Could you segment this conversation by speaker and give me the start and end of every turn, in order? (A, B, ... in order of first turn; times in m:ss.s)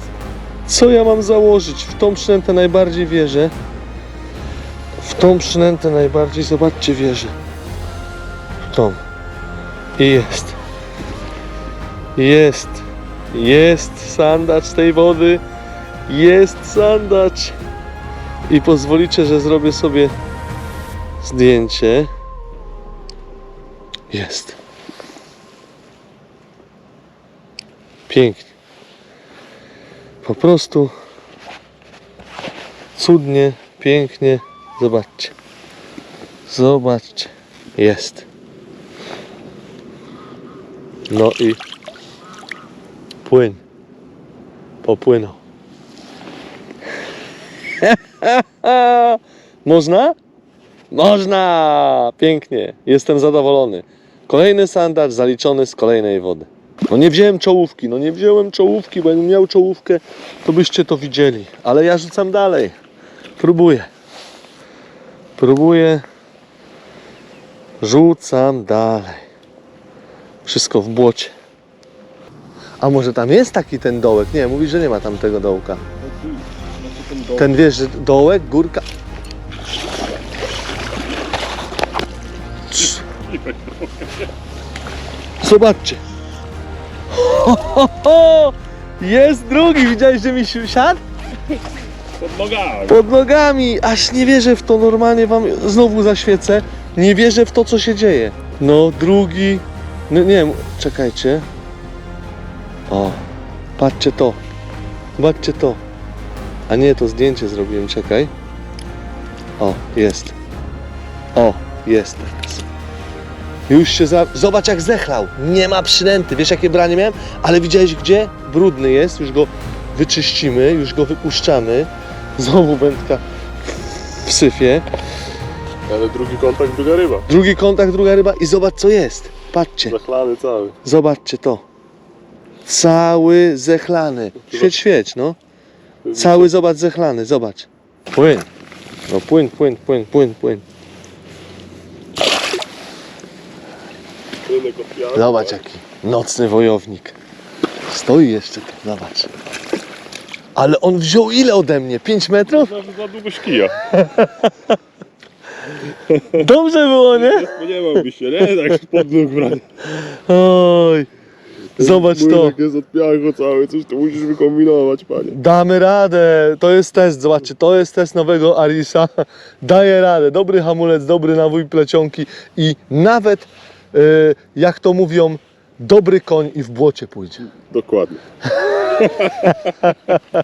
0:00.7-0:03.5 A
0:05.0-0:07.4 A
0:08.7-0:09.0 A
0:10.0-0:10.6 A
0:12.2-0:15.4 A
0:16.1-0:17.6 A
0:18.5-0:20.1 A
0:21.2-0:22.1 A
0:24.1-0:24.6 A
0:28.1-0:28.5 A
0:30.2-0:30.9 A
0:33.0-0:35.3 A
0:36.5-0:38.3 A
0:41.1-0:41.6 A
0:43.2-0:43.6 A
0:44.8-0:45.4 A
0:47.8-0:50.2 A
0:50.9-1:02.8 A
1:03.4-1:03.9 A
1:05.4-1:06.0 A
1:07.8-1:09.2 A
1:10.4-1:11.3 A
1:12.8-1:15.8 A
1:16.0-1:17.7 B
1:17.4-1:18.8 A
1:22.7-1:24.3 B
1:25.4-1:26.0 A
1:27.1-1:31.0 A
1:32.2-1:33.0 B
1:32.9-1:41.5 A
1:42.9-1:43.2 A
1:43.8-1:44.4 A
1:45.2-1:45.8 A
1:46.7-1:48.3 A
1:49.6-1:50.3 A
1:51.4-1:52.7 A
1:53.7-2:04.9 A
2:05.9-2:07.3 B
2:07.3-2:10.0 A
2:09.9-2:10.8 B
2:10.8-2:11.6 A
2:12.7-2:15.4 A
2:14.4-2:14.7 B
2:16.0-2:16.6 B
2:16.1-2:18.5 A
2:19.1-2:20.6 A
2:24.5-2:25.6 B
2:25.2-2:27.2 A
2:27.9-2:29.3 A
2:30.6-2:32.7 A
2:32.5-2:33.8 B
2:33.9-2:34.8 A
2:36.2-2:37.6 A
2:37.1-2:39.7 B
2:39.9-2:41.1 A
2:41.8-2:45.4 B
2:41.8-2:42.6 A
2:45.3-2:57.4 A
2:57.5-2:58.2 B
2:59.0-2:59.7 B